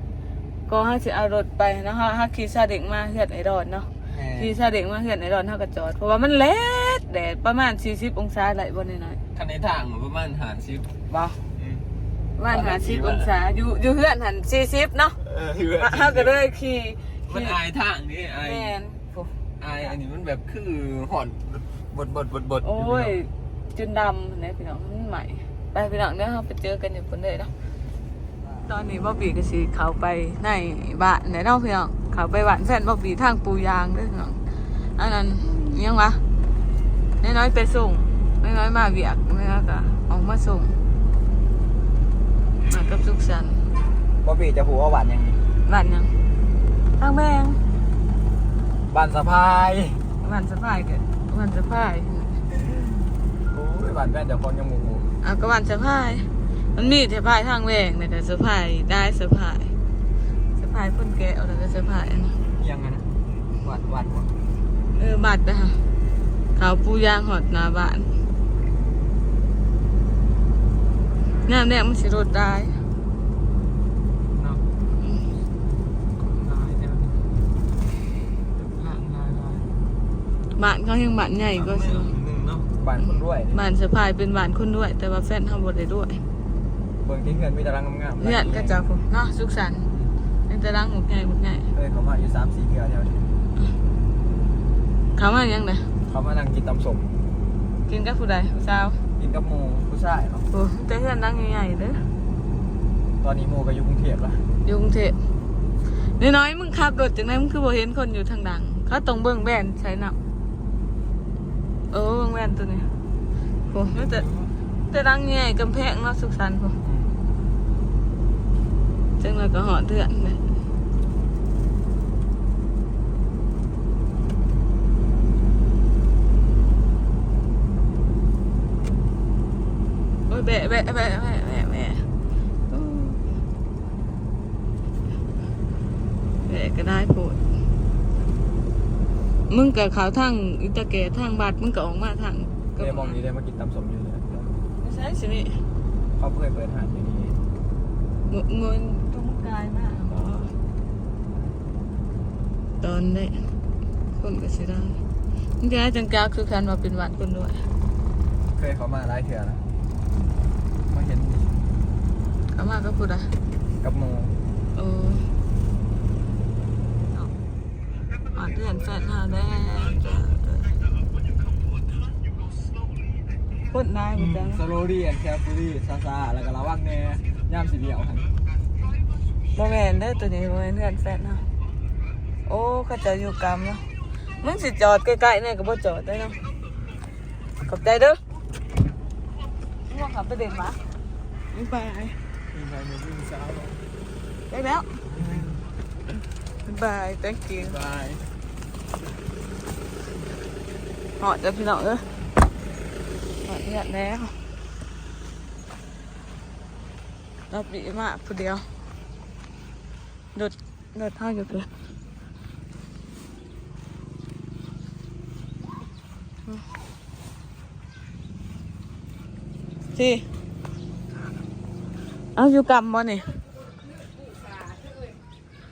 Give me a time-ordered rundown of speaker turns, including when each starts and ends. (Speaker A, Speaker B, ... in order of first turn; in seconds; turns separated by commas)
Speaker A: 0.7-9.2, Speaker B: 4.1-4.5, Speaker C: 9.3-10.8, Speaker A: 11.1-11.4, Speaker A: 12.4-15.2, Speaker C: 12.5-13.2, Speaker C: 15.2-16.3, Speaker A: 15.8-17.6, Speaker C: 17.3-18.7, Speaker A: 18.4-19.3, Speaker C: 19.6-23.1, Speaker A: 22.6-27.5, Speaker A: 28.6-34.4, Speaker A: 35.0-36.2, Speaker A: 37.2-40.8, Speaker A: 42.7-43.6, Speaker B: 44.2-45.4, Speaker A: 45.6-46.1, Speaker A: 47.0-47.6, Speaker B: 48.9-50.0, Speaker A: 50.2-52.4, Speaker B: 53.5-55.1, Speaker A: 55.2-59.7, Speaker A: 60.5-62.4, Speaker B: 62.6-63.1, Speaker B: 63.6-64.3, Speaker A: 64.9-65.8, Speaker A: 66.5-68.1, Speaker A: 71.5-72.8, Speaker C: 76.3-77.3, Speaker C: 78.6-79.7, Speaker A: 80.5-82.1, Speaker C: 81.6-82.7, Speaker B: 82.7-83.7, Speaker A: 83.5-86.2, Speaker B: 87.0-88.8, Speaker A: 88.2-89.9, Speaker A: 90.5-91.7, Speaker B: 91.7-93.3, Speaker A: 95.1-95.9, Speaker B: 96.1-97.1, Speaker A: 97.9-99.0, Speaker B: 99.2-100.5, Speaker A: 100.5-102.0, Speaker B: 103.2-104.5, Speaker A: 104.6-105.2, Speaker A: 106.1-110.2, Speaker A: 111.9-112.9, Speaker A: 113.7-114.2, Speaker B: 113.9-114.5, Speaker A: 114.9-116.8, Speaker B: 116.8-117.2, Speaker A: 119.2-120.4, Speaker A: 130.3-132.0, Speaker A: 132.7-133.2, Speaker A: 136.5-137.4, Speaker A: 139.5-143.2, Speaker B: 142.8-144.5, Speaker A: 144.8-145.6, Speaker B: 146.2-147.4, Speaker A: 148.3-150.6, Speaker A: 152.8-153.4, Speaker A: 154.2-155.0, Speaker A: 155.6-157.7, Speaker B: 158.5-159.6, Speaker B: 160.9-161.5, Speaker A: 162.5-163.3, Speaker B: 163.8-164.4, Speaker A: 164.7-165.3, Speaker A: 168.3-170.7, Speaker A: 173.7-174.6, Speaker B: 174.2-178.3, Speaker A: 179.5-181.4, Speaker A: 182.4-183.9, Speaker A: 184.4-186.4, Speaker A: 187.6-188.2, Speaker A: 189.9-190.8, Speaker A: 191.5-192.2, Speaker B: 192.5-193.8, Speaker A: 194.5-195.0, Speaker B: 195.1-195.5, Speaker C: 195.2-195.6, Speaker A: 196.6-197.8, Speaker B: 197.6-198.2, Speaker A: 201.2-202.1, Speaker A: 203.4-204.4, Speaker A: 207.5-208.7, Speaker A: 210.3-211.7, Speaker A: 219.9-220.2, Speaker A: 222.3-223.3